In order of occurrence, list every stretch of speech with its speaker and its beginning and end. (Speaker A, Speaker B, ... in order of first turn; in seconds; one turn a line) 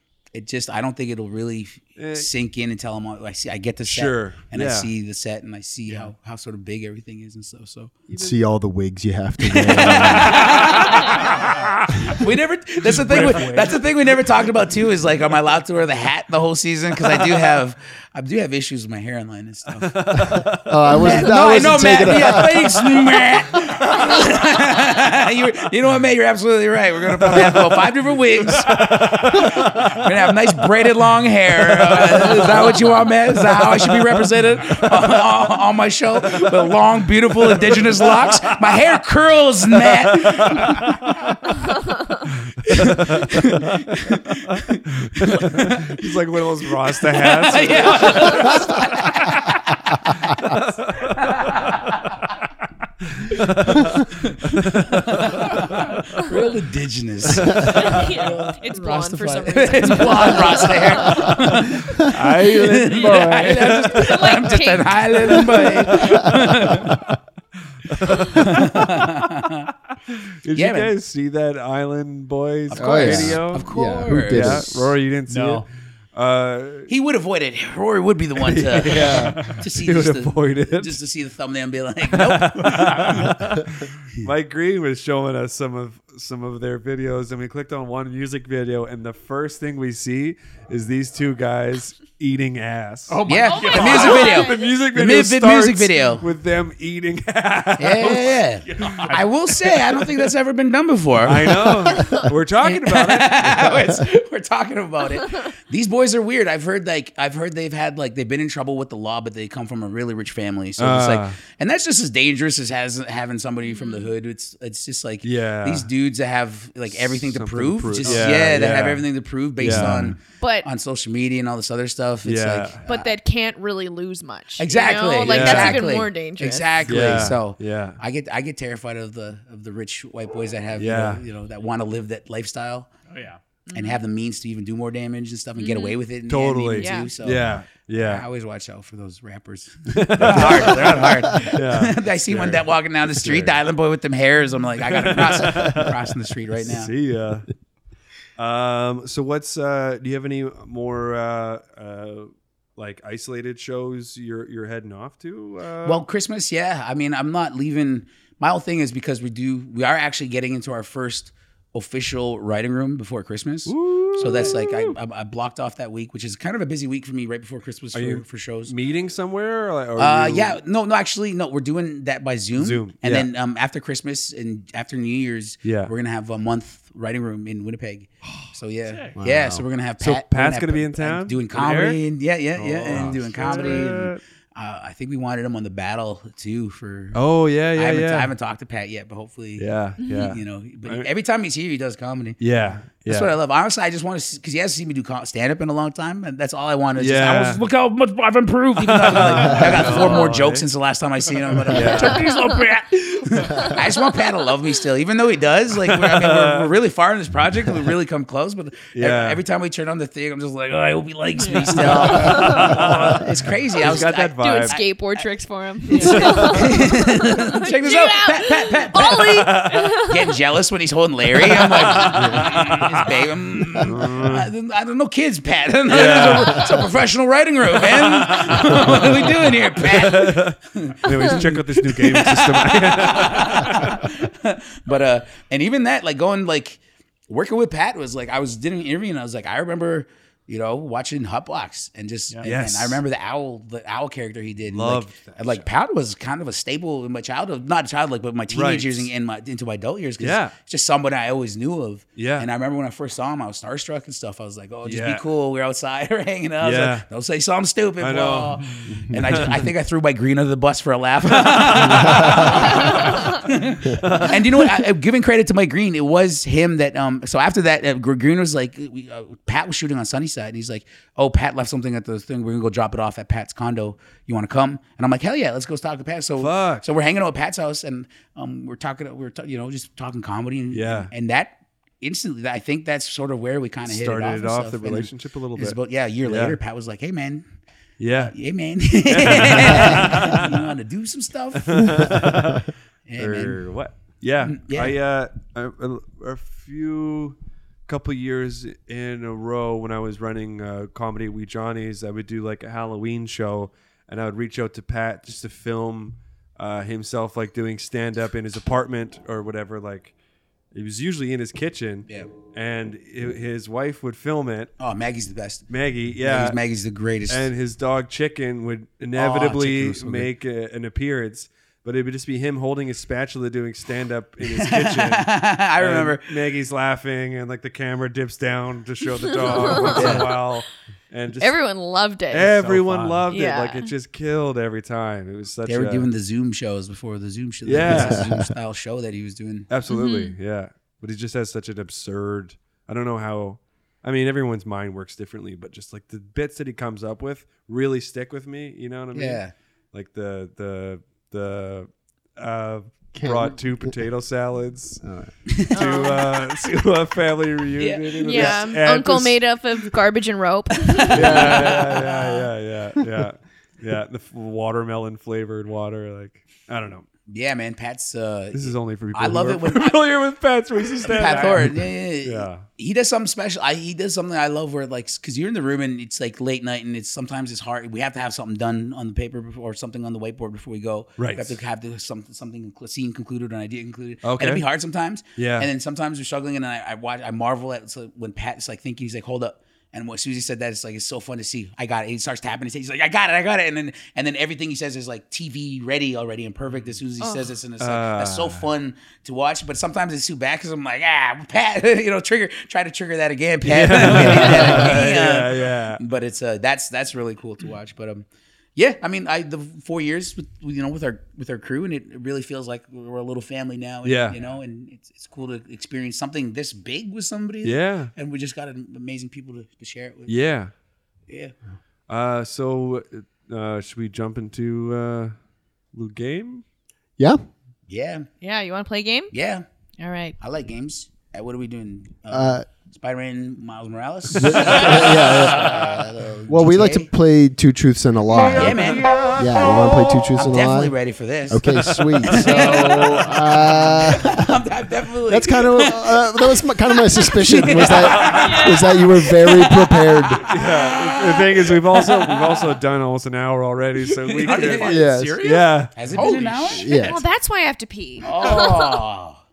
Speaker A: 0.3-8.0
Speaker B: 2.0-2.3
Speaker B: 3.9-4.9
Speaker C: 8.2-10.4
Speaker A: 9.5-11.5
Speaker B: 10.5-11.1
Speaker D: 11.1-11.5
Speaker A: 12.1-20.4
Speaker B: 12.8-13.8
Speaker D: 13.1-13.5
Speaker B: 19.8-22.4
Speaker C: 20.4-22.8
Speaker A: 20.9-41.0
Speaker B: 27.1-30.1
Speaker B: 31.6-34.2
Speaker B: 36.4-36.7
Speaker B: 37.4-38.8
Speaker B: 39.7-41.5
Speaker B: 42.2-49.6
Speaker A: 42.7-46.0
Speaker A: 47.0-50.5
Speaker B: 50.1-51.9
Speaker A: 51.4-52.1
Speaker B: 53.2-56.2
Speaker A: 54.0-67.1
Speaker B: 57.3-58.1
Speaker E: 57.6-61.5
Speaker B: 62.0-64.4
Speaker E: 63.9-66.0
Speaker B: 65.5-66.9
Speaker B: 67.9-69.3
Speaker A: 68.3-69.7
Speaker B: 70.1-76.9
Speaker A: 70.5-70.9
Speaker A: 72.7-74.7
Speaker C: 72.8-74.9
Speaker D: 75.3-75.7
Speaker A: 76.9-83.3
Speaker B: 78.4-81.0
Speaker D: 79.2-79.5
Speaker B: 82.1-99.9
Speaker D: 93.1-94.3
Speaker A: 93.2-96.2
Speaker E: 93.5-94.7
Speaker A: 97.8-123.1
Speaker D: 98.6-99.4
Speaker B: 101.2-103.8
Speaker B: 110.8-111.4
Speaker E: 113.7-114.1
Speaker B: 115.2-115.9
Speaker B: 116.9-119.1
Speaker D: 118.0-118.5
Speaker B: 119.6-120.2
Speaker E: 120.4-120.7
Speaker B: 122.2-122.8
Speaker E: 122.9-127.2
Speaker A: 124.6-132.9
Speaker B: 125.2-125.8
Speaker B: 126.9-128.0
Speaker B: 130.8-131.2
Speaker D: 133.1-133.4
Speaker E: 133.7-134.0
Speaker A: 133.7-146.9
Speaker E: 135.6-136.0
Speaker B: 136.3-138.2
Speaker E: 136.8-137.1
Speaker B: 139.9-143.6
Speaker B: 144.8-146.0
Speaker B: 146.6-147.5
Speaker B: 148.4-156.0
Speaker A: 155.8-168.7
Speaker B: 163.7-164.9
Speaker B: 167.9-170.6
Speaker A: 170.0-187.2
Speaker B: 172.5-173.3
Speaker B: 175.6-175.9
Speaker D: 178.9-179.2
Speaker C: 179.2-179.6
Speaker B: 180.0-182.0
Speaker D: 182.6-183.9
Speaker B: 182.7-184.2
Speaker B: 187.1-188.3
Speaker A: 187.7-192.4
Speaker B: 189.6-191.1
Speaker E: 190.0-190.3
Speaker B: 192.4-193.3
Speaker A: 193.1-214.9
Speaker B: 197.0-197.7
Speaker B: 198.8-200.7
Speaker B: 201.6-202.4
Speaker B: 205.8-206.7
Speaker B: 208.9-209.4
Speaker E: 211.4-212.8
Speaker B: 211.6-214.8
Speaker E: 213.8-220.4
Speaker A: 215.9-287.4
Speaker B: 215.9-216.8
Speaker B: 219.2-220.0
Speaker B: 221.4-222.9
Speaker E: 221.8-222.1
Speaker B: 223.7-224.5
Speaker B: 225.9-226.9
Speaker B: 227.7-234.1
Speaker B: 242.4-243.0
Speaker B: 244.7-245.7
Speaker B: 248.5-249.1
Speaker B: 250.2-250.6
Speaker B: 252.2-252.5
Speaker B: 254.8-255.2
Speaker B: 256.6-257.1
Speaker B: 258.0-259.7
Speaker B: 261.4-264.8
Speaker C: 262.1-262.4
Speaker B: 276.4-276.9
Speaker B: 280.7-281.1
Speaker B: 283.9-286.6
Speaker B: 288.0-288.4
Speaker A: 288.2-292.1
Speaker B: 289.1-290.7
Speaker B: 291.6-310.1
Speaker A: 293.1-293.6
Speaker A: 294.4-295.0
Speaker B: 310.7-314.7
Speaker A: 314.8-315.6
Speaker B: 315.7-316.6
Speaker A: 316.2-317.5
Speaker B: 317.3-331.6
Speaker A: 319.2-320.3
Speaker A: 324.4-326.3
Speaker E: 329.4-330.3
Speaker A: 329.9-330.3
Speaker E: 331.4-332.6
Speaker B: 332.3-336.1
Speaker D: 332.5-333.3
Speaker E: 333.3-333.9
Speaker A: 335.7-339.7
Speaker B: 337.6-338.2
Speaker C: 337.8-338.5
Speaker B: 339.7-355.0
Speaker E: 339.9-340.4
Speaker A: 349.1-349.5
Speaker C: 353.1-354.0
Speaker C: 355.0-355.3
Speaker A: 355.5-355.8
Speaker B: 355.7-359.4
Speaker E: 355.7-356.4
Speaker A: 357.8-358.6
Speaker E: 358.2-361.8
Speaker A: 361.0-362.5
Speaker B: 361.1-367.1
Speaker A: 367.3-370.0
Speaker B: 368.5-372.7
Speaker A: 371.1-408.2
Speaker D: 371.2-371.7
Speaker B: 381.2-381.6
Speaker B: 384.2-384.6
Speaker B: 385.4-385.7
Speaker E: 397.2-397.5
Speaker B: 397.8-398.7
Speaker B: 403.6-406.0
Speaker A: 408.8-420.4
Speaker B: 414.0-414.4
Speaker B: 417.6-418.1
Speaker B: 420.3-420.7
Speaker A: 421.3-421.5
Speaker B: 422.1-425.4
Speaker B: 425.9-426.6
Speaker A: 427.9-428.3
Speaker E: 428.4-429.3
Speaker A: 429.3-429.6
Speaker E: 430.0-430.4
Speaker A: 430.4-437.1
Speaker C: 432.3-432.7
Speaker C: 434.3-436.0
Speaker C: 436.5-441.0
Speaker A: 438.5-439.2
Speaker B: 438.6-440.3
Speaker A: 440.3-441.7
Speaker C: 441.5-444.6
Speaker B: 441.7-443.6
Speaker A: 442.2-446.6
Speaker C: 445.3-450.5
Speaker A: 447.2-448.7
Speaker E: 448.2-449.5
Speaker A: 449.4-449.8
Speaker B: 450.5-457.1
Speaker A: 451.1-452.6
Speaker D: 454.3-456.8
Speaker A: 454.4-455.2
Speaker C: 454.9-455.6
Speaker A: 455.9-456.9
Speaker C: 456.7-457.2
Speaker E: 456.9-459.0
Speaker A: 458.2-459.4